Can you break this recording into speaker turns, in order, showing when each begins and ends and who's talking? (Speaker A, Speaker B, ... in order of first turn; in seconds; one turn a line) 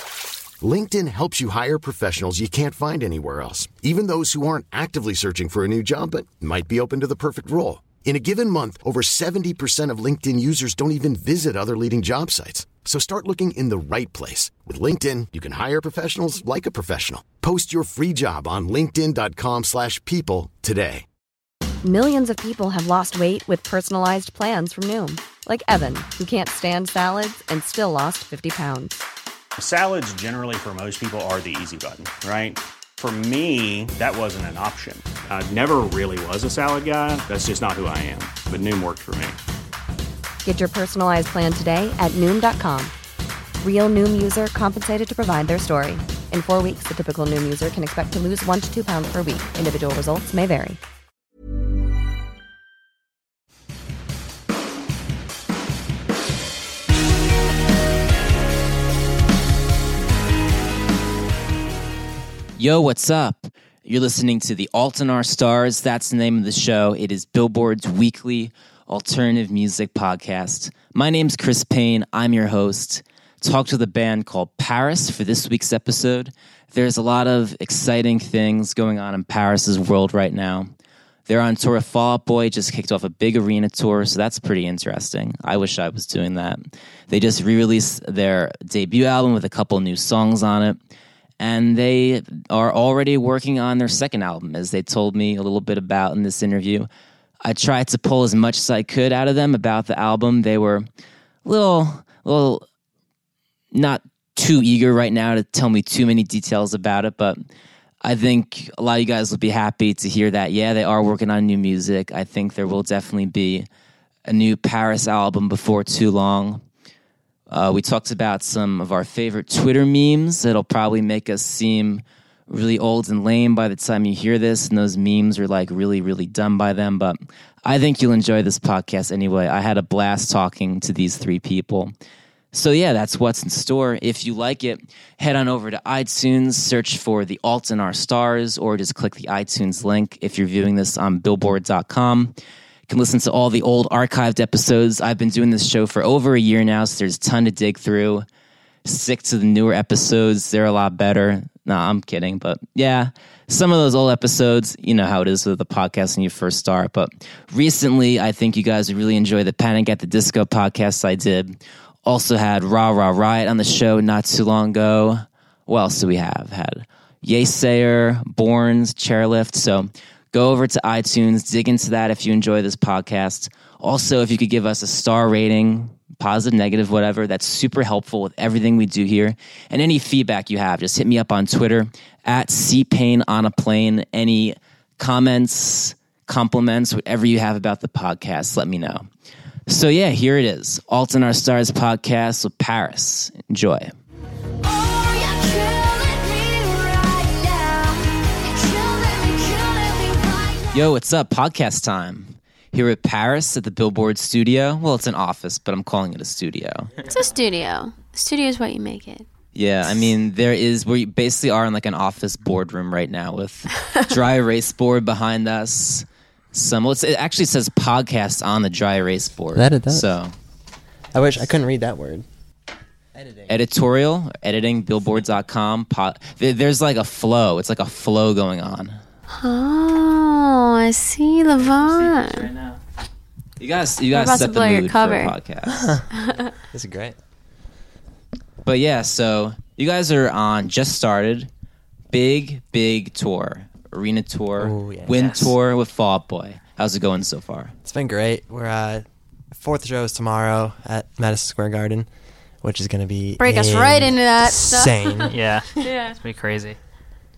Speaker A: 0.6-21.0
Speaker B: 21.8-29.0
Speaker C: 29.6-39.4
Speaker B: 40.4-42.9
Speaker B: 43.6-50.8
Speaker D: 62.6-80.7
Speaker D: 81.3-90.8
Speaker D: 91.4-96.9
Speaker D: 97.4-100.8
Speaker D: 101.4-102.6
Speaker D: 103.7-107.4
Speaker D: 108.0-113.7
Speaker D: 114.2-116.6
Speaker D: 117.5-131.9
Speaker D: 132.5-142.3
Speaker D: 142.9-148.2
Speaker D: 148.8-189.1
Speaker D: 189.7-193.9
Speaker E: 194.6-200.9
Speaker D: 200.7-206.9
Speaker F: 207.1-209.3
Speaker D: 209.5-220.3
Speaker G: 219.5-220.1
Speaker G: 221.1-222.2
Speaker G: 223.1-223.5
Speaker D: 223.5-229.0
Speaker F: 229.3-232.4
Speaker H: 231.6-232.8
Speaker D: 233.6-235.9
Speaker F: 234.1-235.3
Speaker G: 235.7-236.0
Speaker F: 236.2-236.5
Speaker G: 236.7-237.2
Speaker D: 238.6-241.5
Speaker D: 242.1-247.7
Speaker G: 244.6-245.1
Speaker H: 245.1-245.5
Speaker G: 247.8-252.1
Speaker G: 252.6-255.4
Speaker F: 253.4-256.1
Speaker H: 255.3-256.8